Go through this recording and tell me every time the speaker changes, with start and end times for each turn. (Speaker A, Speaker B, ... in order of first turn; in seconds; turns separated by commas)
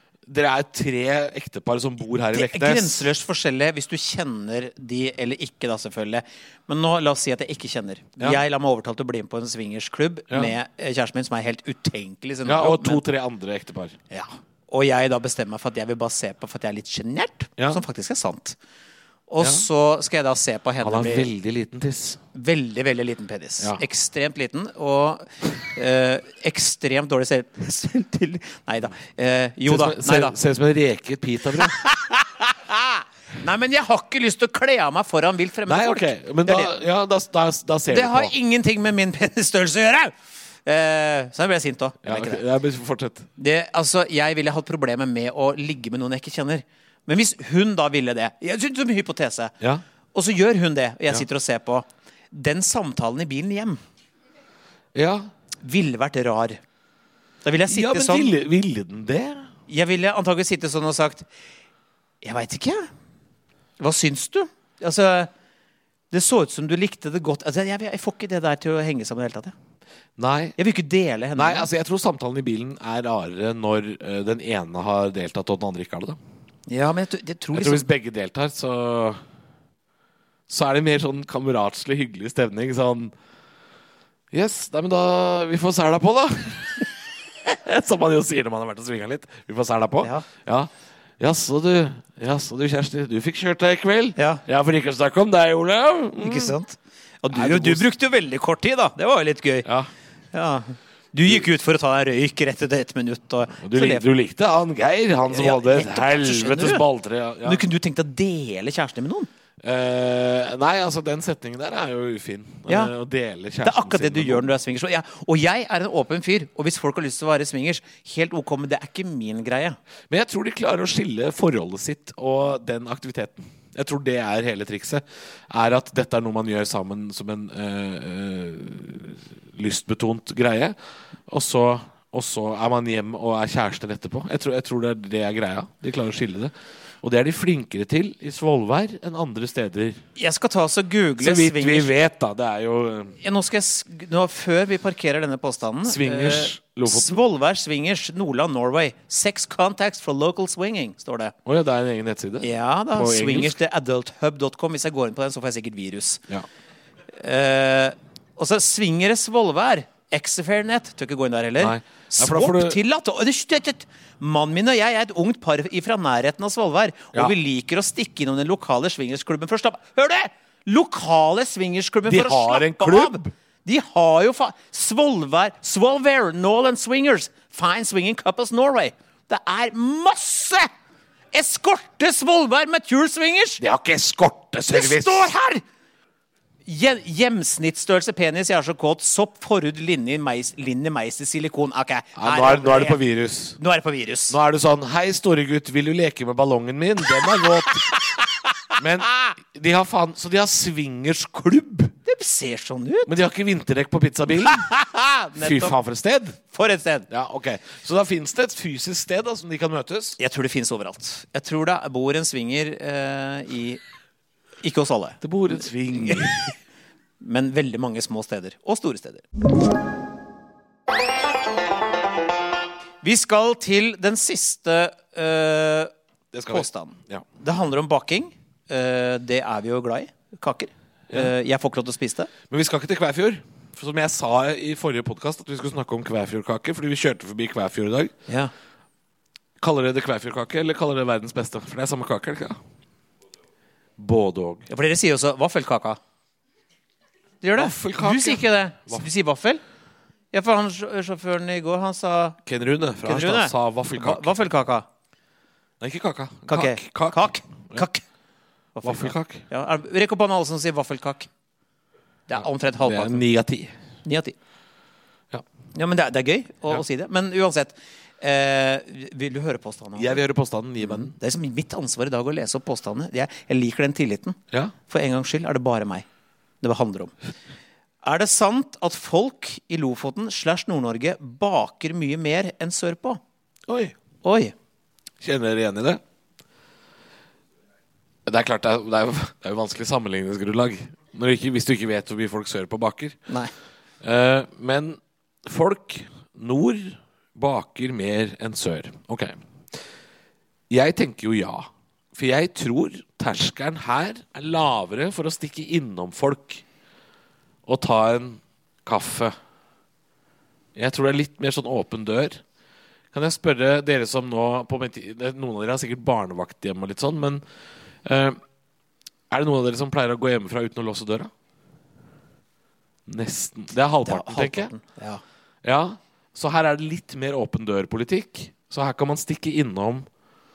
Speaker A: 0.2-3.1, Speaker B: 2.3-13.0, Speaker A: 12.4-14.0, Speaker B: 14.1-18.6, Speaker B: 19.3-21.3, Speaker A: 20.8-22.2, Speaker B: 22.3-30.4, Speaker A: 29.6-31.8, Speaker B: 31.6-36.7, Speaker A: 35.6-38.3, Speaker B: 37.9-40.1, Speaker B: 40.6-42.4, Speaker A: 42.0-43.3, Speaker B: 43.4-49.5, Speaker B: 50.1-53.8, Speaker A: 54.9-55.3, Speaker B: 55.6-56.6, Speaker B: 57.4-58.4, Speaker A: 57.7-59.5, Speaker B: 59.7-61.3, Speaker B: 62.2-62.9, Speaker B: 63.8-65.3, Speaker B: 66.1-69.5, Speaker A: 70.2-70.5, Speaker B: 70.6-71.7, Speaker A: 71.3-76.2, Speaker B: 76.7-77.9, Speaker A: 77.5-79.2, Speaker A: 80.5-83.1, Speaker A: 84.3-86.9, Speaker A: 87.4-96.5, Speaker B: 94.2-94.4, Speaker B: 96.2-99.7, Speaker A: 97.3-97.8, Speaker A: 99.7-99.9, Speaker B: 100.3-104.0, Speaker A: 103.6-107.6, Speaker B: 105.2-106.8, Speaker B: 107.4-109.3, Speaker A: 109.6-114.5, Speaker B: 112.7-112.9, Speaker B: 113.6-119.8, Speaker A: 120.1-130.8, Speaker A: 131.3-140.0, Speaker B: 140.2-141.9, Speaker A: 141.2-143.2, Speaker B: 143.2-151.3, Speaker A: 145.8-147.2, Speaker A: 151.4-153.6, Speaker B: 152.4-156.2, Speaker B: 157.1-180.7, Speaker A: 161.6-162.8, Speaker A: 172.1-173.3, Speaker B: 181.3-183.6, Speaker A: 183.6-185.3, Speaker B: 184.7-185.6, Speaker B: 186.7-193.0, Speaker A: 192.2-193.6, Speaker B: 193.6-194.4, Speaker A: 194.3-197.8, Speaker B: 197.4-198.2, Speaker A: 198.8-201.9, Speaker B: 202.1-203.1, Speaker A: 203.1-204.7, Speaker B: 204.4-205.8, Speaker A: 205.4-206.4, Speaker B: 206.5-207.1, Speaker A: 207.1-210.2, Speaker B: 210.2-213.8, Speaker B: 214.6-216.4, Speaker A: 215.2-216.5, Speaker B: 217.2-219.2, Speaker B: 223.0-225.9, Speaker A: 226.3-227.2, Speaker B: 226.5-232.3, Speaker A: 232.5-238.1, Speaker A: 239.6-242.6, Speaker A: 244.0-244.7, Speaker B: 244.7-246.0, Speaker B: 247.4-249.6, Speaker A: 247.5-249.1, Speaker B: 250.3-252.4, Speaker A: 252.4-254.3, Speaker B: 253.0-254.8, Speaker A: 255.8-257.8, Speaker B: 256.5-258.0, Speaker B: 258.8-261.3, Speaker A: 258.8-259.4, Speaker B: 262.3-263.2, Speaker A: 262.4-263.7, Speaker B: 264.0-264.4, Speaker B: 265.7-270.2, Speaker A: 270.0-271.1, Speaker B: 270.8-276.1, Speaker B: 276.6-277.1, Speaker B: 278.0-283.2, Speaker A: 283.7-283.9, Speaker B: 284.2-284.5, Speaker A: 285.2-286.0, Speaker A: 288.2-293.2, Speaker A: 294.0-299.4, Speaker A: 300.7-306.6, Speaker A: 307.6-309.3, Speaker A: 310.7-312.4, Speaker A: 313.1-317.4, Speaker A: 318.0-318.4, Speaker A: 319.3-321.3, Speaker A: 323.1-324.7, Speaker B: 324.0-325.2, Speaker A: 325.6-330.1